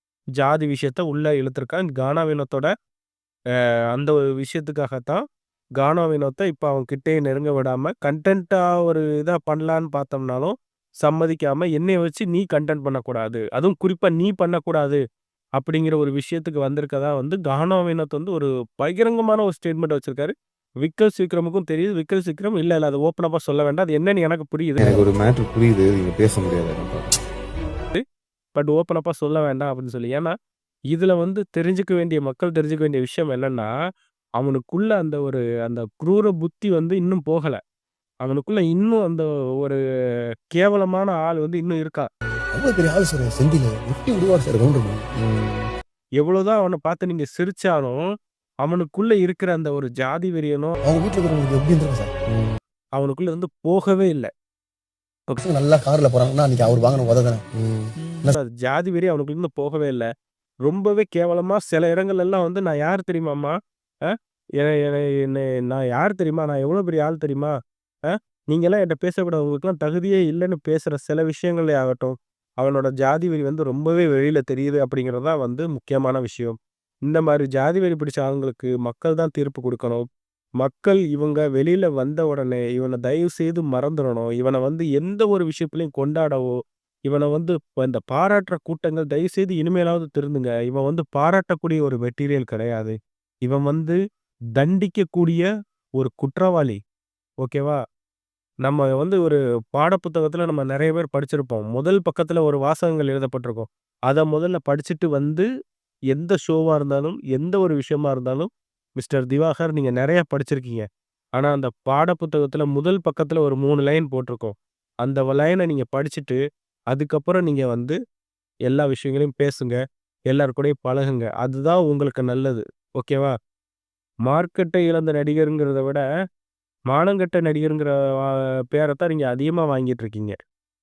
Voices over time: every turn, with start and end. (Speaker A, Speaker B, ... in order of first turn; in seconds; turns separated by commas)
Speaker A: 0.4-2.7, Speaker A: 3.9-5.2, Speaker A: 5.8-15.0, Speaker A: 15.6-25.0, Speaker B: 24.8-27.2, Speaker A: 28.5-30.3, Speaker A: 30.9-33.7, Speaker A: 34.4-37.6, Speaker A: 38.2-39.8, Speaker A: 40.5-42.0, Speaker C: 42.5-45.1, Speaker B: 45.2-45.7, Speaker A: 46.2-48.0, Speaker A: 48.6-50.8, Speaker C: 50.8-52.1, Speaker B: 52.3-52.5, Speaker A: 53.0-54.3, Speaker C: 55.4-57.4, Speaker B: 57.6-57.9, Speaker A: 58.2-60.0, Speaker A: 60.6-63.5, Speaker A: 64.1-67.5, Speaker A: 68.1-76.5, Speaker A: 77.1-80.0, Speaker A: 80.6-86.5, Speaker A: 87.1-94.0, Speaker A: 94.5-95.5, Speaker A: 96.0-96.8, Speaker A: 97.4-97.8, Speaker A: 98.6-105.5, Speaker A: 106.1-110.8, Speaker A: 111.3-116.4, Speaker A: 116.9-118.0, Speaker A: 118.7-119.8, Speaker A: 120.3-123.3, Speaker A: 124.2-126.0, Speaker A: 126.9-130.3